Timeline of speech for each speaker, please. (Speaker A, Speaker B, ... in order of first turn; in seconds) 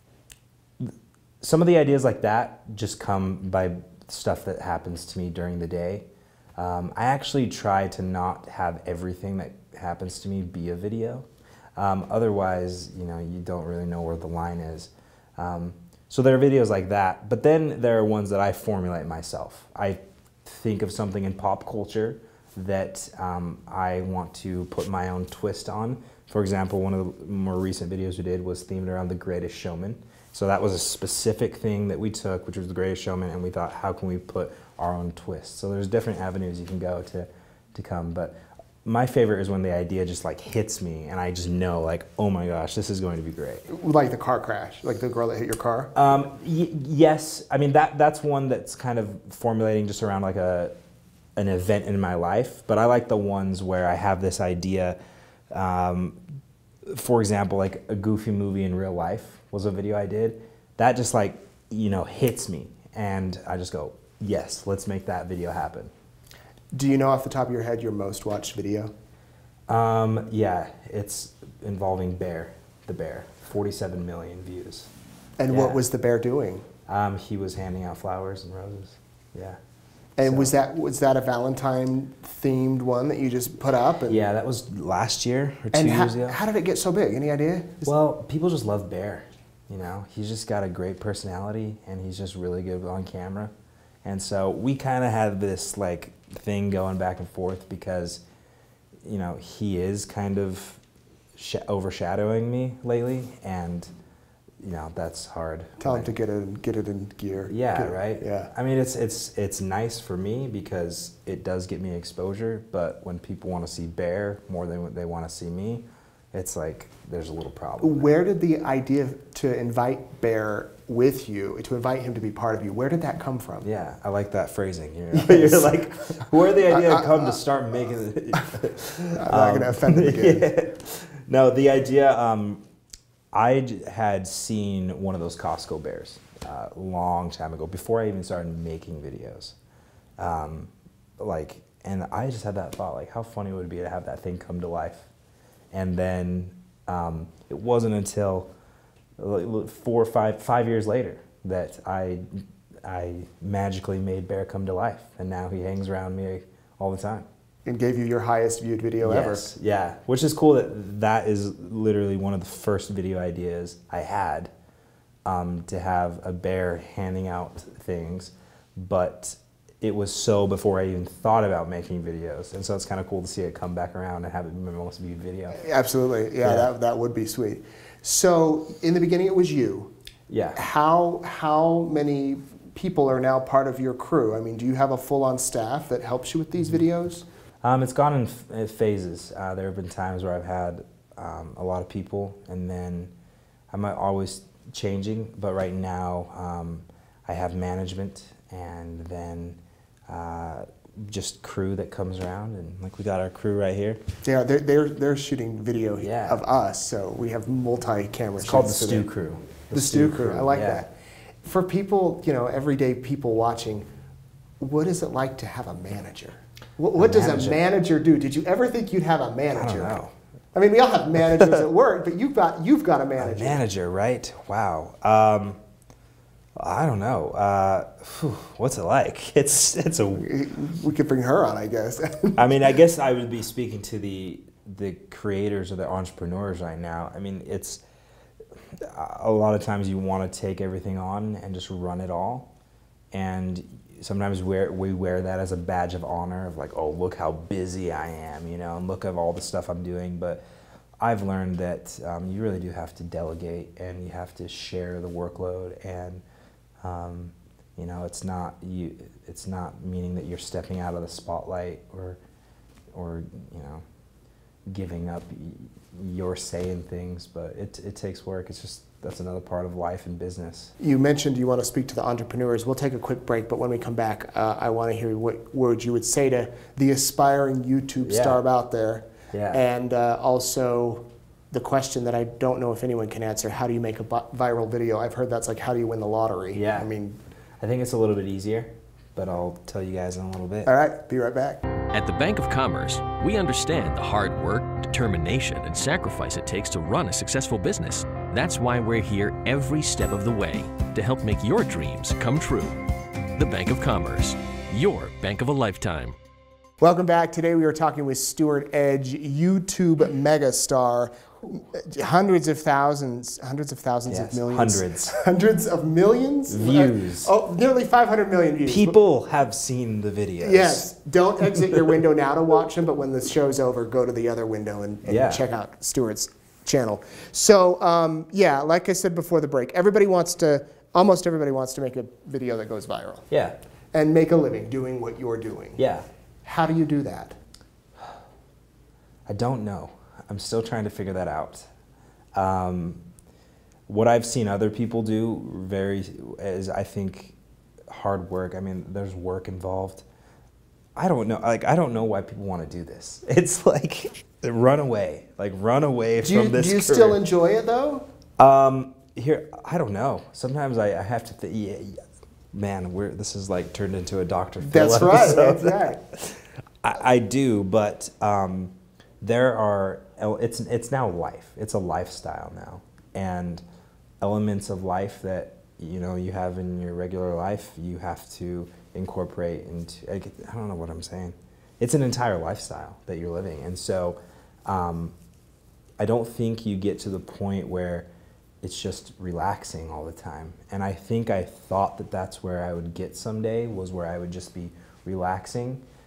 Speaker A: 0.8-43.7, 45.9-50.8, 51.4-55.0, 55.5-56.2, 56.9-65.9, 69.7-74.9, 75.5-75.8, 76.9-79.6, 80.2-80.5, 84.1-86.4, 87.8-93.5, 94.0-98.2, 99.0-100.8, 101.3-103.9, 104.6-106.1, 107.5-118.1, 123.6-132.6, 133.3-139.6, 140.2-145.1, 145.7-148.5, 149.2-157.3, 159.0-164.5, 165.2-175.6, 176.4-176.7, 180.3-180.6, 187.6-193.1, 193.7-204.0, 206.0-206.4, 208.4-210.8, 216.9-217.6, 219.5-220.1, 223.2-225.6, 226.6-230.3, 232.4-237.8, 238.7-242.5, 243.1-250.4, 251.0-256.2, 256.8-262.2, 262.9-263.8, 264.7-270.7, 278.0-278.4, 279.3-279.6, 286.5-286.9, 287.6-290.7, 314.1-315.1, 316.5-317.3, 318.6-320.9, 321.5-321.9, 325.0-325.4, 333.3-333.6, 335.8-336.1, 339.3-341.7, 342.3-343.0, 343.9-347.4, 347.9-350.0, 350.9-357.2, 358.4-362.0, 362.5-373.6, 374.2-385.1, 386.0-388.1, 388.6-395.8
Speaker B: 43.7-45.9, 66.7-68.9, 75.4-76.7, 80.2-84.2, 85.7-87.9, 105.8-108.5, 117.8-123.7, 125.1-127.4, 129.0-130.5, 157.7-159.5, 175.5-179.9, 180.5-187.2, 204.2-209.1, 209.7-210.9, 211.4-213.9, 214.6-220.0, 220.5-223.6, 230.2-232.4, 270.8-287.2, 290.6-291.6, 306.8-318.9, 320.4-333.3, 333.9-335.8, 336.4-337.4, 356.2-358.1, 364.6-366.0
Speaker C: 291.9-302.8, 303.4-306.1